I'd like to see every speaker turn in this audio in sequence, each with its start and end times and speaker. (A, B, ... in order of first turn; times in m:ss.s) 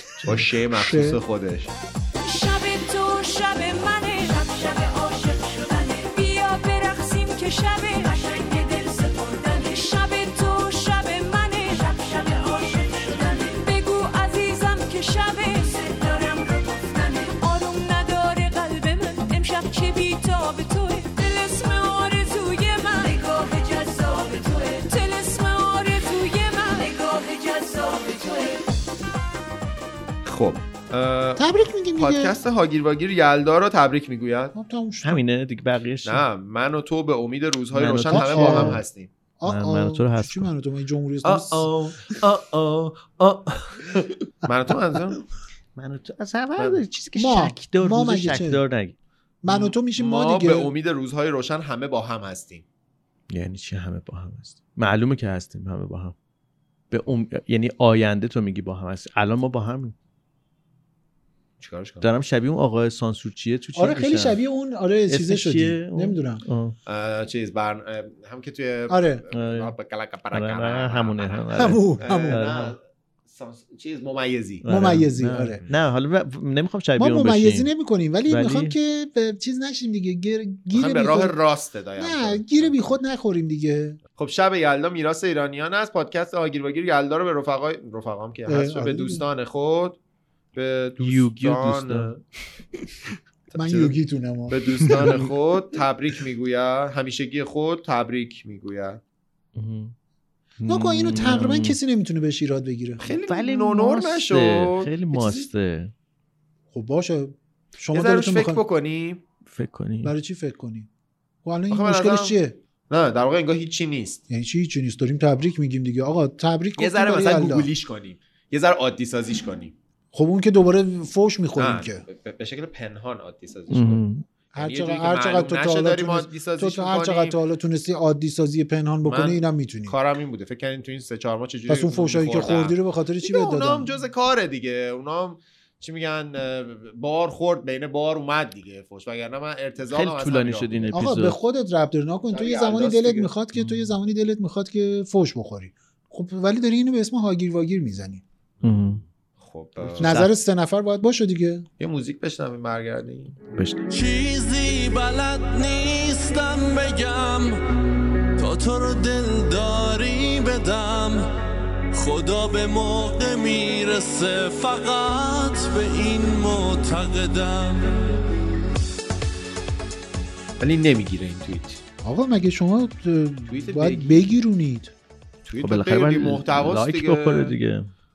0:00.2-0:01.2 A
0:00.2-0:01.7 B
0:02.2-0:28.6 C
0:30.2-0:34.6 B
0:31.4-0:32.4 A
0:34.6-0:35.2 A
0:35.0-0:36.2 D
0:36.0-0:39.1 B
0:37.7-0:38.8 D
0:38.1-0:38.8 A
0:39.4-0:41.7 A
0:39.5-0:40.5 D
0:41.2-0:45.2 B
0:45.8-0:49.0 D
0:47.2-0:48.6 A
0:49.4-0:50.7 A
0:49.5-0:52.6 B
0:53.3-0:56.2 D
0:56.9-1:00.0 D
1:01.6-1:02.1 B
1:02.0-1:04.4 D
1:03.8-1:06.4 A
1:05.1-1:06.8 D
1:06.9-1:12.8 B
1:08.9-1:09.2 A
1:09.3-1:09.7 D
1:10.3-1:12.8 D
1:11.6-1:12.4 A
1:13.3-1:14.6 B
1:14.6-1:17.7 D
1:14.7-1:15.6 A
1:17.0-1:21.4 A
1:18.3-1:18.8 D
1:20.7-1:23.0 B
1:22.0-1:24.0 A
1:24.2-1:30.0 B
1:28.5-1:29.2 A
1:30.6-1:32.2 B
1:31.0-1:32.1 D
1:33.5-1:34.0 B
1:33.6-1:35.2 A
1:34.5-1:39.0 B
1:39.6-1:39.9 D
1:40.6-1:41.8 D
1:40.7-1:43.1 A
1:43.0-1:44.9 B
1:43.3-1:45.9 D
1:45.1-1:45.5 A
1:46.7-1:48.6 A
1:47.9-1:49.2 B
1:49.5-1:50.1 D
1:50.0-1:50.9 A
1:51.4-1:52.6 A
1:51.7-1:52.4 B
1:52.9-1:54.2 B
1:54.3-1:57.7 A
1:56.8-1:59.8 B
2:00.1-2:02.0 A
2:01.6-2:04.0 B
2:03.7-2:04.2 D
2:04.5-2:10.0 A
2:04.6-2:07.4 B
2:09.0-2:21.0 B
2:11.7-2:13.9 A
2:19.9-2:21.4 D
2:20.9-2:28.2 A
2:22.3-2:23.3 B
2:28.6-2:30.2 B
2:28.6-2:29.0 D
2:30.0-2:30.3 D
2:30.0-2:31.7 A
2:31.8-2:33.4 B
2:33.6-2:33.8 D
2:33.9-2:37.6 E
2:38.4-2:41.2 E
2:41.9-2:48.2 E
2:50.6-2:51.8 B
2:52.0-2:54.9 A
2:53.5-2:54.3 B
2:55.4-2:57.5 B
2:55.6-2:57.9 D